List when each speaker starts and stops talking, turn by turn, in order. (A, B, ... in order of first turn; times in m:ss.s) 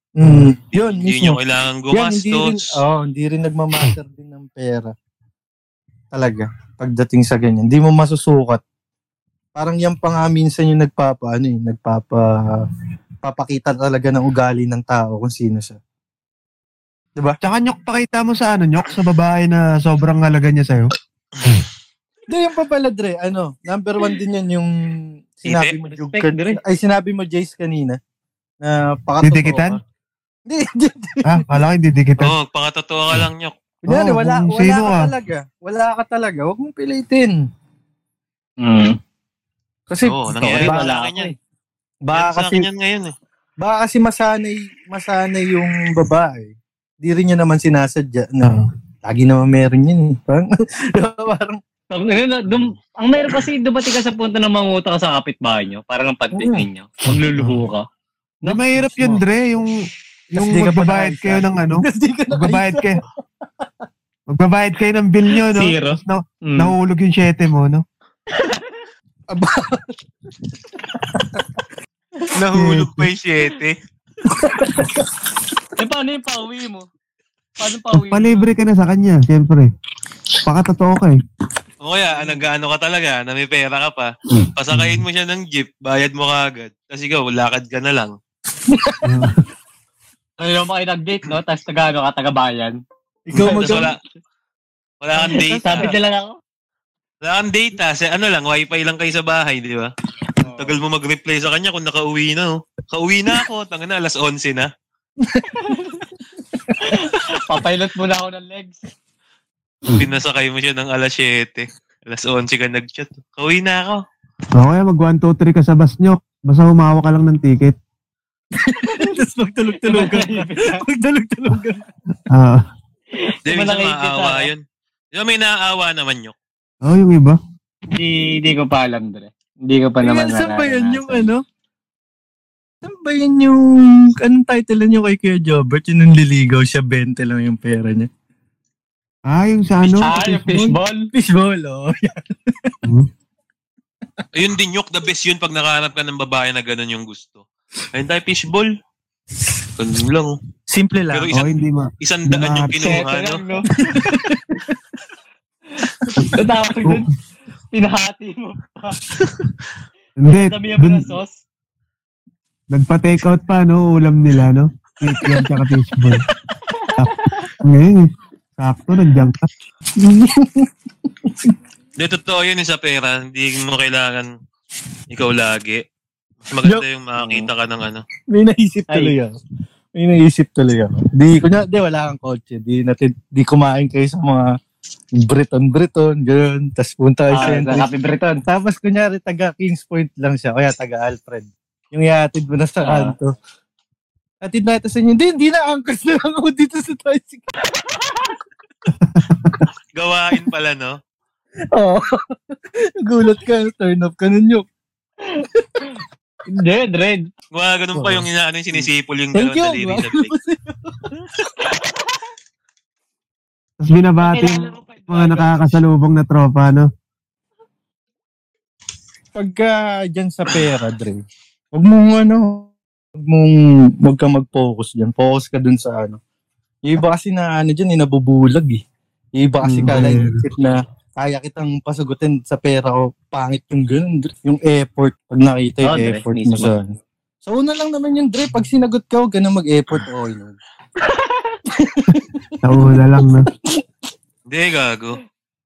0:00.2-0:01.4 A
0:00.7-0:02.6 B
0:01.9-0:04.9 A
0:06.1-0:08.6 A
0:09.6-0:12.6 A
0:13.2-0:15.8 A
0:17.4-0:20.9 C
0:22.3-0:24.7 A
0:25.4-0:28.0 A
0:25.4-0:25.7 B
0:25.9-0:26.6 D
0:28.6-0:29.8 A
0:29.2-0:29.8 C
0:30.5-0:31.4 A
0:31.2-0:32.3 C
0:32.2-0:33.5 B
0:33.8-0:37.4 A
0:33.9-0:35.1 C
0:38.6-0:39.0 D
0:39.9-0:40.9 A
0:40.0-0:41.3 B
0:40.4-0:41.3 D
0:42.0-0:42.7 A
0:42.1-0:43.1 B
0:43.6-0:51.6 A
0:51.9-0:57.8 D
0:56.3-0:56.6 A
0:57.1-0:57.6 C
0:58.4-0:59.2 A
0:58.4-0:59.7 C
1:00.3-1:03.0 C
1:00.3-1:03.0 A
1:04.3-1:07.8 C
1:05.5-1:06.7 D
1:08.3-1:08.8 D
1:09.3-1:09.9 A
1:10.9-1:11.4 A
1:12.3-1:13.8 B
1:12.5-1:13.1 C
1:14.3-1:15.0 A
1:15.8-1:16.8 D
1:17.6-1:18.5 D
1:17.9-1:19.7 C
1:20.4-1:21.2 C
1:21.8-1:28.1 B
1:24.7-1:25.0 C
1:28.7-1:29.0 A
1:29.0-1:29.4 C
1:30.4-1:32.8 D
1:33.3-1:33.9 A
1:33.3-1:34.0 B
1:33.4-1:33.9 D
1:35.0-1:35.9 B
1:35.1-1:35.9 A
1:35.3-1:36.4 D
1:37.2-1:39.9 B
1:40.4-1:40.7 A
1:40.6-1:44.7 B
1:45.2-1:45.8 A
1:45.6-1:46.0 D
1:46.8-1:48.8 D
1:49.9-1:54.0 B
1:54.6-1:57.8 C
1:58.6-2:01.9 A
1:59.8-2:00.8 D
2:02.3-2:02.6 C
2:03.1-2:04.5 D
2:03.5-2:06.3 B
2:06.8-2:07.4 C
2:07.9-2:11.3 D
2:10.0-2:11.4 A
2:12.8-2:18.1 A
2:19.3-2:20.1 C
2:20.0-2:21.1 D
2:20.0-2:22.7 A
2:24.3-2:28.7 B
2:29.8-2:30.4 B
2:30.7-2:31.3 A
2:31.1-2:33.4 B
2:31.3-2:33.0 C
2:32.7-2:34.0 D
2:33.9-2:34.7 A
2:36.0-2:36.4 A
2:36.3-2:37.0 D
2:37.7-2:39.0 D
2:40.2-2:41.1 C
2:40.3-2:41.3 D
2:42.7-2:46.2 C
2:46.7-2:47.5 D
2:47.0-2:49.5 C
2:50.0-2:50.7 A
2:51.2-2:51.5 A
2:52.0-2:54.3 B
2:55.1-2:55.8 B
2:56.4-2:58.0 B
2:57.2-2:57.5 D
2:58.3-2:59.3 A
3:00.0-3:04.5 A
3:05.2-3:07.9 A
3:07.3-3:08.4 D
3:08.4-3:13.3 A
3:12.8-3:13.1 D
3:14.4-3:17.5 A
3:17.7-3:18.4 D
3:19.0-3:19.5 C
3:19.9-3:21.0 B
3:21.7-3:24.6 A
3:26.5-3:27.2 D
3:27.5-3:30.3 B
3:27.9-3:31.3 A
3:31.6-3:32.1 D
3:33.8-3:36.9 C
3:34.2-3:35.8 D
3:39.3-3:41.2 A
3:41.7-3:46.2 A
3:46.8-3:48.8 A
3:49.4-3:56.9 A
3:49.6-3:50.4 C
3:55.8-3:56.7 D
3:57.4-4:00.6 A
4:01.0-4:01.6 D
4:01.8-4:02.4 A
4:02.6-4:03.5 C
4:04.5-4:05.2 B